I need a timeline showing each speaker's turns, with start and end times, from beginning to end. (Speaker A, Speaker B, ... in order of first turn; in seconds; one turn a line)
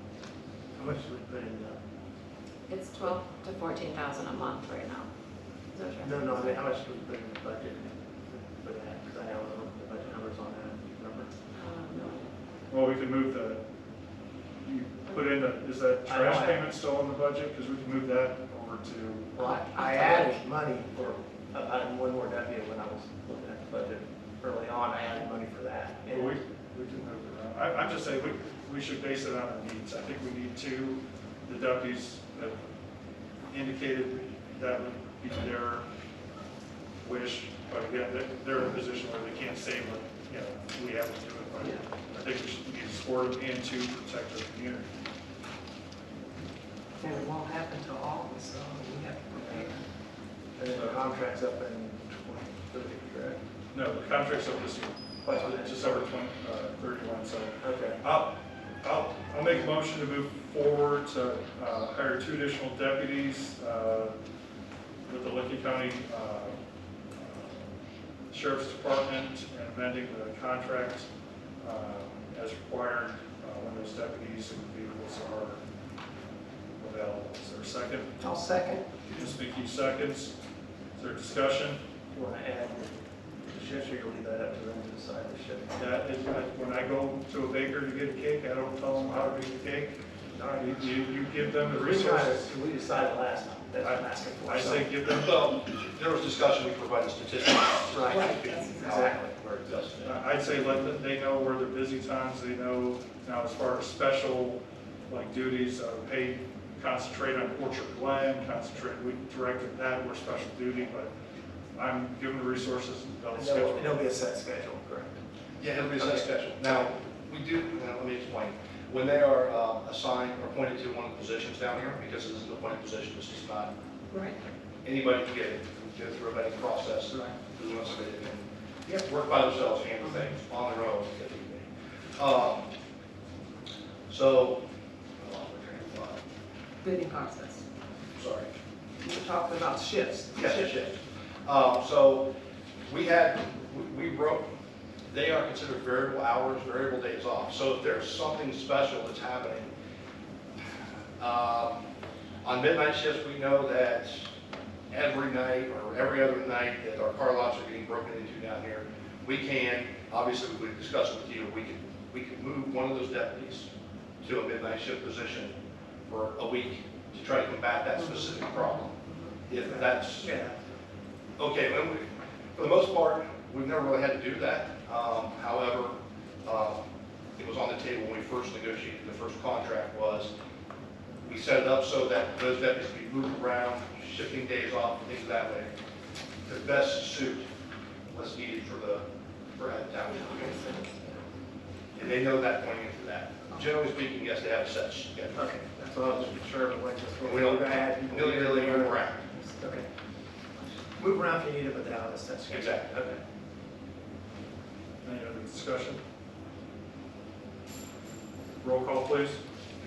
Speaker A: 0.8-1.8
Speaker B: 2.7-5.1
Speaker B: 5.7-6.6
Speaker A: 6.0-11.3
Speaker B: 11.5-12.3
Speaker C: 12.7-13.6
Speaker C: 14.6-19.5
Speaker A: 16.1-16.7
Speaker A: 19.4-26.4
Speaker B: 19.7-20.3
Speaker C: 26.1-32.6
Speaker C: 33.5-35.8
Speaker C: 37.0-44.9
Speaker D: 47.0-49.8
Speaker A: 49.3-49.7
Speaker A: 50.6-53.4
Speaker C: 50.6-51.0
Speaker C: 53.7-64.1
Speaker A: 55.2-56.1
Speaker A: 57.6-58.0
Speaker C: 65.1-66.6
Speaker C: 67.2-67.8
Speaker C: 68.3-71.1
Speaker C: 71.6-75.6
Speaker C: 76.8-78.1
Speaker D: 78.2-78.8
Speaker C: 79.1-80.3
Speaker C: 81.0-81.8
Speaker A: 82.1-85.8
Speaker C: 85.8-90.0
Speaker A: 90.3-94.9
Speaker C: 90.5-92.5
Speaker C: 93.8-95.3
Speaker E: 95.1-100.2
Speaker A: 97.9-99.3
Speaker D: 98.1-98.9
Speaker C: 100.0-111.1
Speaker C: 111.8-114.0
Speaker A: 113.3-115.2
Speaker E: 115.6-123.7
Speaker A: 115.9-116.9
Speaker D: 124.1-124.4
Speaker E: 124.8-132.7
Speaker E: 134.1-134.6
Speaker E: 135.2-136.2
Speaker D: 136.8-137.6
Speaker E: 138.1-138.5
Speaker D: 139.0-140.6
Speaker E: 140.3-142.3
Speaker E: 142.8-144.5
Speaker E: 145.1-149.7
Speaker E: 151.2-151.8
Speaker E: 152.4-154.3
Speaker E: 154.9-163.7
Speaker E: 164.2-165.5
Speaker E: 166.1-170.3
Speaker A: 169.5-170.5
Speaker E: 171.4-176.8
Speaker E: 177.4-180.3
Speaker E: 181.2-185.7
Speaker E: 186.4-187.5
Speaker E: 188.1-189.0
Speaker E: 189.6-190.8
Speaker B: 190.1-190.9
Speaker E: 191.9-195.4
Speaker A: 195.3-199.9
Speaker E: 197.2-199.2
Speaker A: 201.0-203.2
Speaker E: 202.5-203.0
Speaker C: 205.0-206.0
Speaker C: 208.6-209.4